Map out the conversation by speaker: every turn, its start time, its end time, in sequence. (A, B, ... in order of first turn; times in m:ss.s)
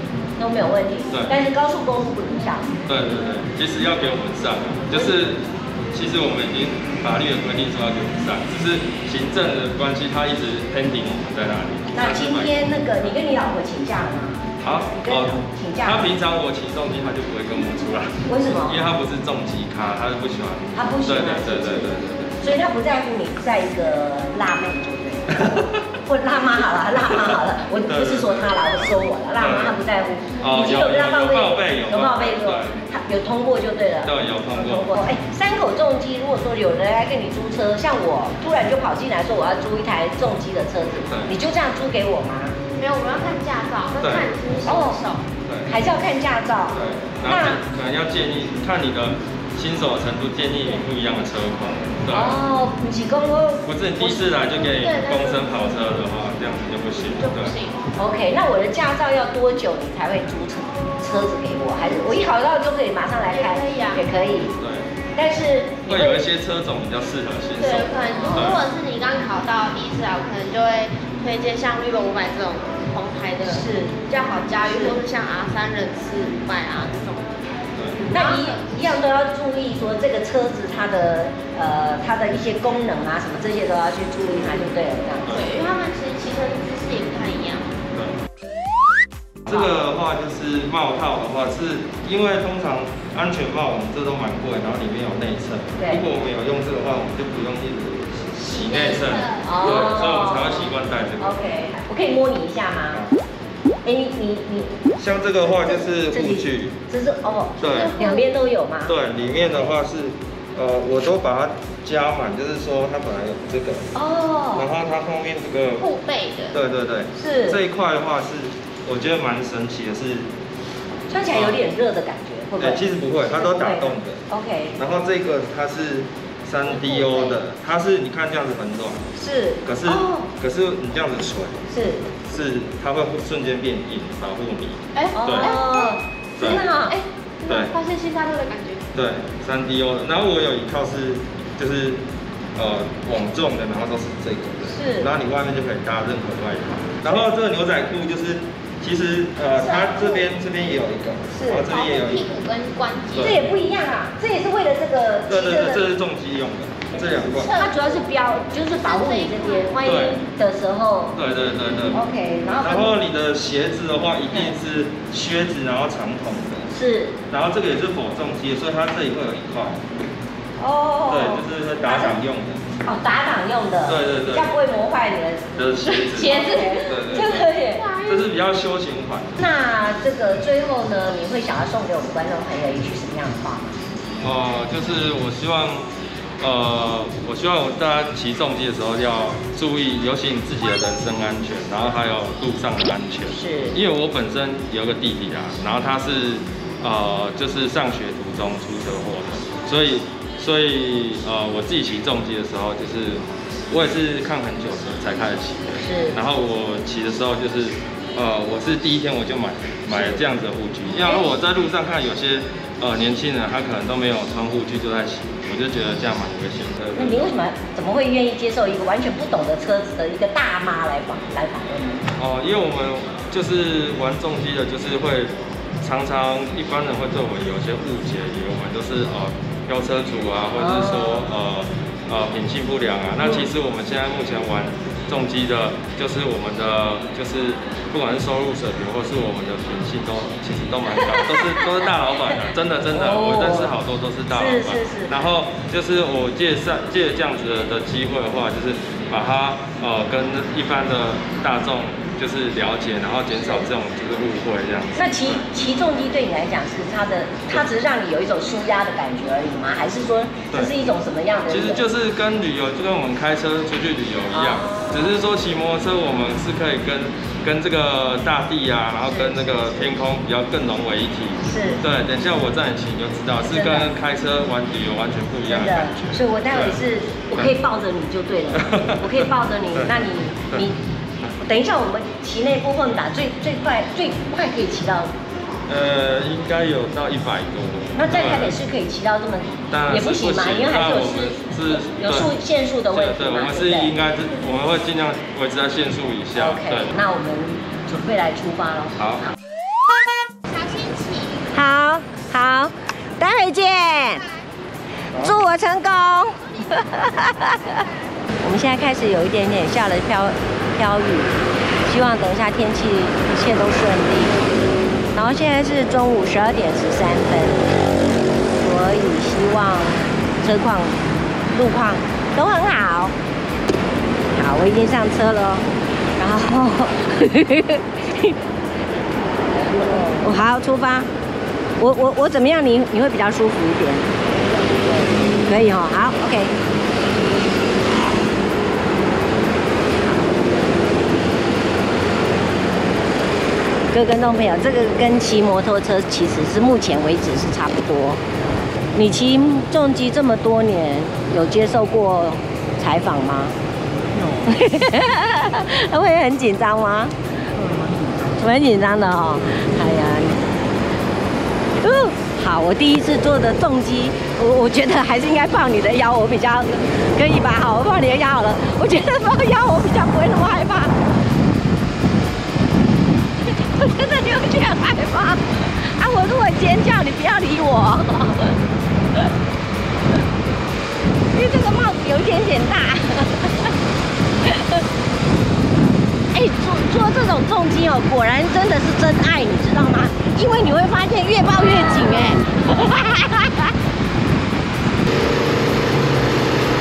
0:00.4-0:02.8 A
0:02.9-0:12.7 B
0:04.9-0:05.2 A
0:11.9-0:16.1 A
0:14.6-0:22.4 B
0:18.3-0:18.8 A
0:20.8-0:42.6 A
0:25.3-0:25.8 B
0:27.9-0:29.8 B
0:30.4-0:32.8 B
0:34.0-0:34.9 B
0:41.1-0:41.3 B
0:42.7-0:45.2 C
0:44.0-0:44.3 B
0:44.6-0:45.0 A
0:45.4-0:45.7 B
0:45.6-0:47.6 A
0:46.7-0:52.4 B
0:52.1-0:53.6 A
0:53.6-0:57.5 B
0:54.0-0:55.8 C
0:57.2-0:57.9 C
0:58.0-1:04.6 A
1:03.3-1:04.0 C
1:04.6-1:04.9 B
1:05.1-1:06.2 A
1:05.9-1:08.6 B
1:07.6-1:17.4 C
1:08.2-1:08.6 A
1:13.4-1:14.0 A
1:14.6-1:15.0 A
1:17.8-1:18.0 B
1:18.0-1:18.8 C
1:18.1-1:25.4 A
1:25.2-1:25.6 B
1:25.3-1:27.7 C
1:29.4-1:41.4 B
1:35.8-1:36.0 A
1:38.4-1:39.9 C
1:39.4-1:43.0 A
1:43.8-1:44.8 A
1:45.0-1:46.8 B
1:46.1-1:48.9 A
1:47.6-1:48.0 B
1:47.6-1:48.3 C
1:48.9-1:53.9 B
1:53.9-1:54.7 A
1:54.5-1:55.9 B
1:55.8-1:56.6 C
1:56.5-2:00.3 B
1:57.2-1:57.6 A
2:01.1-2:04.8 A
2:01.3-2:01.6 B
2:02.6-2:04.2 B
2:04.8-2:09.0 B
2:06.8-2:07.3 A
2:09.2-2:10.3 A
2:09.6-2:11.6 B
2:11.7-2:12.1 A
2:12.2-2:15.6 B
2:14.9-2:18.9 C
2:15.1-2:17.0 A
2:16.4-2:16.6 B
2:17.5-2:17.7 B
2:18.9-2:22.0 B
2:22.6-2:32.3 B
2:24.7-2:25.1 A
2:29.6-2:30.1 C
2:29.7-2:30.1 A
2:31.3-2:31.7 A
2:31.6-2:33.5 C
2:33.1-2:33.4 B
2:33.2-2:35.9 A
2:35.3-2:37.5 B
2:37.1-2:38.0 C
2:37.5-2:41.2 A
2:38.8-2:39.8 C
2:39.8-2:40.2 B
2:41.1-2:42.0 B
2:41.9-2:42.9 A
2:42.6-2:46.7 B
2:44.3-2:44.5 A
2:46.7-2:47.2 A
2:47.3-2:49.8 B
2:50.6-2:52.2 A
2:51.1-2:52.6 B
2:52.8-2:57.8 A
2:53.9-2:54.5 B
2:55.6-2:57.5 B
2:55.8-2:57.2 C
2:57.8-2:58.3 C
2:58.0-2:59.4 B
2:59.4-3:03.8 A
3:04.2-3:05.9 B
3:06.4-3:37.3 B
3:13.3-3:13.8 A
3:25.8-3:26.2 A
3:29.9-3:30.2 A
3:31.0-3:31.3 A
3:36.9-3:42.0 A
3:42.2-4:15.4 B
3:50.6-3:51.3 A
3:53.2-3:53.5 A
4:01.0-4:02.4 A
4:02.9-4:03.8 A
4:04.3-4:05.1 A
4:13.4-4:13.7 A
4:15.0-4:21.9 A
4:21.5-4:36.8 B
4:24.3-4:25.2 A
4:29.0-4:29.8 A
4:31.4-4:31.8 A
4:33.4-4:33.9 A
4:35.5-4:40.8 A
4:38.5-4:40.6 B
4:41.4-4:45.1 A
4:45.7-4:48.6 B
4:48.0-4:53.9 A
4:49.7-4:52.4 B
4:52.9-4:56.9 B
4:56.4-4:59.3 A
4:59.0-4:59.2 B
5:00.6-5:01.4 C
5:01.5-5:04.3 A
5:05.1-5:07.8 A
5:08.4-5:14.4 A
5:15.1-5:17.6 A
5:18.6-5:21.0 A
5:21.5-5:23.1 A
5:24.3-5:25.6 A
5:26.2-5:28.4 A
5:29.5-5:31.1 A
5:31.8-5:36.5 A
5:43.9-5:48.2 A
5:48.9-5:53.6 A
5:54.4-5:57.1 A
5:58.2-6:00.4 A
6:01.8-6:11.0 A
6:13.5-6:18.6 A
6:21.3-6:23.7 A
6:24.4-6:24.8 A
6:26.3-6:33.7 A